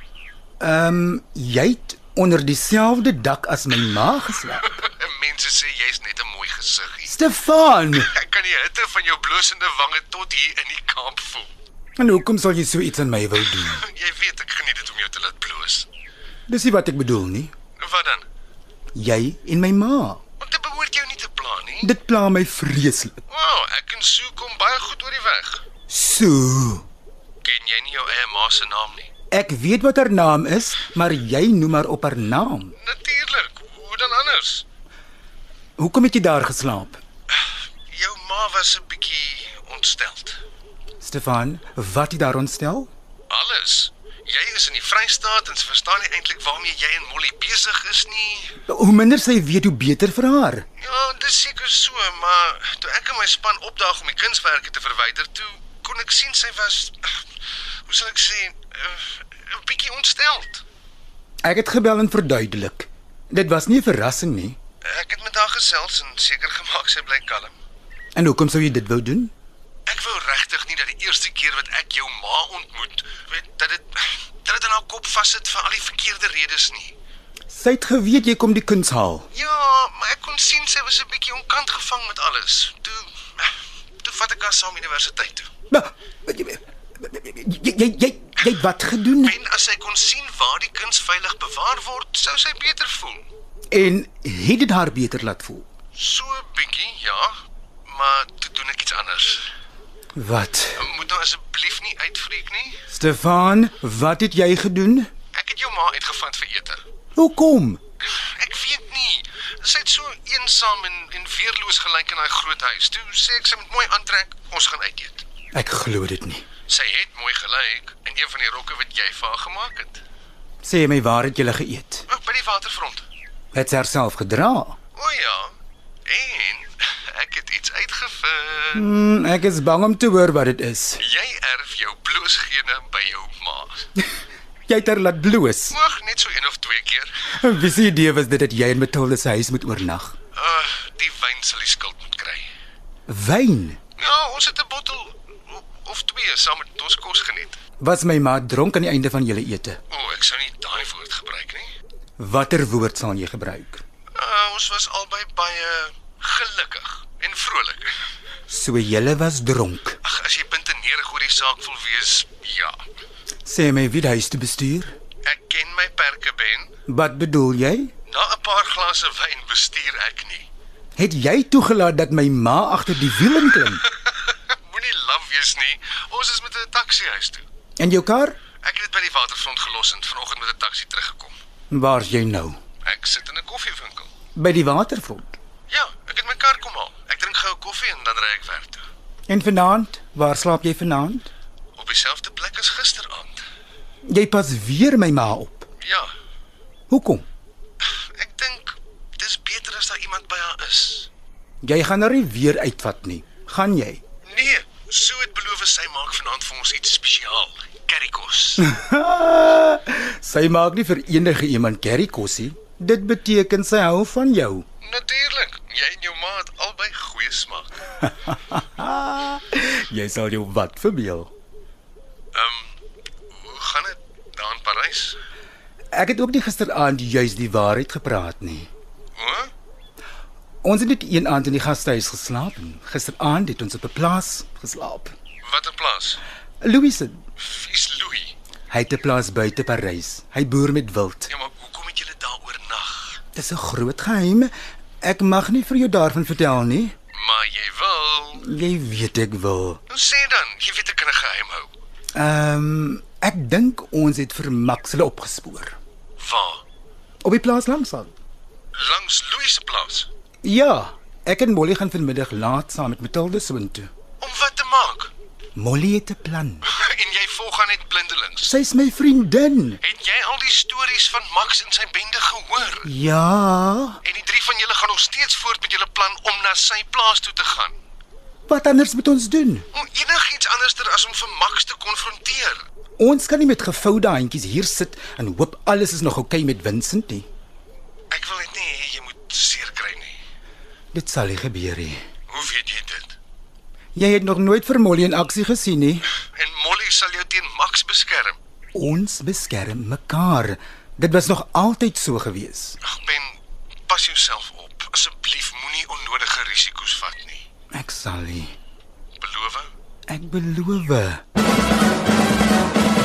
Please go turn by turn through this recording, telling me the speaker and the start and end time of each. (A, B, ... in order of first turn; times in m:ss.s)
0:00.6-0:04.6 A
0:04.8-0:07.1 B
0:07.1-0:08.1 A
0:08.0-0:11.5 B
0:12.0-0:13.8 A
0:13.7-0:15.9 B
0:16.5-0:17.5 A
0:17.8-0:18.2 B
0:18.9-0:20.2 A
0:20.4-0:21.8 B
0:21.8-0:23.2 A
0:23.3-0:25.6 B
0:25.9-0:26.9 A
0:27.4-0:29.1 B
0:29.3-0:32.7 A
0:32.8-0:34.6 B
0:35.8-0:37.0 A
0:37.9-0:40.4 B
0:41.0-0:42.9 A
0:43.3-0:48.5 B
0:48.7-0:50.6 A
0:50.8-0:57.1 B
0:57.9-1:00.6 B
1:01.4-1:04.6 A
1:04.9-1:07.5 B
1:08.1-1:09.3 A
1:09.9-1:16.9 B
1:17.5-1:19.3 A
1:19.3-1:23.5 B
1:24.0-1:25.5 B
1:25.7-1:29.4 A
1:29.3-1:33.2 B
1:33.7-1:35.6 A
1:35.9-1:37.3 B
1:37.9-1:39.4 B
1:40.2-1:40.9 A
1:40.8-1:42.8 B
1:42.9-1:45.1 A
1:45.3-1:46.8 B
1:47.2-1:47.8 A
1:48.2-1:55.2 B
1:55.5-1:56.4 A
1:56.7-2:00.0 B
2:00.6-2:02.0 A
2:02.1-2:03.0 B
2:03.5-2:04.8 A
2:05.0-2:05.5 B
2:06.1-2:08.7 B
2:08.7-2:11.0 A
2:11.0-2:13.7 B
2:14.7-2:15.8 A
2:15.9-2:17.1 B
2:17.3-2:20.2 A
2:20.4-2:22.4 B
2:23.1-2:23.8 A
2:24.0-2:27.6 B
2:27.8-2:29.8 A
2:29.9-2:31.7 B
2:32.2-2:33.8 A
2:34.2-2:37.9 B
2:38.5-2:40.0 A
2:40.0-2:42.8 B
2:43.4-2:44.9 A
2:45.2-2:46.7 B
2:46.9-2:47.9 A
2:48.1-2:50.4 B
2:51.0-2:53.8 A
2:54.3-2:57.4 B
2:57.8-2:58.4 A
2:58.6-3:01.3 B
3:01.7-3:02.6 A
3:02.8-3:04.1 B
3:04.4-3:05.3 A
3:05.7-3:08.8 B
3:09.3-3:11.3 A
3:11.8-3:13.4 B
3:14.1-3:15.7 A
3:15.8-3:16.1 B
3:16.9-3:17.2 A
3:18.2-3:21.1 B
3:21.6-3:24.0 A
3:24.3-3:28.6 B
3:28.6-3:34.6 A
3:34.8-3:37.7 B
3:38.0-3:41.3 A
3:42.4-3:42.7 B
3:43.4-3:45.2 B
3:45.9-3:48.7 A
3:49.2-3:49.5 B
3:50.6-3:55.1 A
3:55.4-3:56.2 B
3:56.6-3:57.2 A
3:57.4-3:58.3 B
3:58.7-4:01.3 A
4:01.3-4:03.2 B
4:03.3-4:04.5 A
4:05.0-4:06.9 A
4:07.2-4:08.3 B
4:08.4-4:09.8 A
4:09.9-4:11.7 B
4:12.2-4:15.8 A
4:16.2-4:16.6 B
4:17.2-4:18.1 A
4:18.8-4:20.1 B
4:20.4-4:23.9 A
4:24.2-4:25.1 B
4:25.6-4:26.6 A
4:26.7-4:28.4 B
4:28.4-4:29.8 A
4:29.8-4:32.8 B
4:32.8-4:34.0 A
4:34.0-4:37.7 B
4:38.5-4:39.6 A
4:39.7-4:42.6 B
4:43.0-4:47.3 A
4:48.1-4:50.2 B
4:50.9-4:52.0 A
4:52.3-4:53.1 B
4:54.0-4:56.0 A
4:56.4-4:58.4 B
4:58.7-5:02.8 A
5:02.8-5:03.4 B
5:03.9-5:07.4 B
5:07.7-5:08.6 A
5:09.2-5:09.7 B
5:10.1-5:11.2 A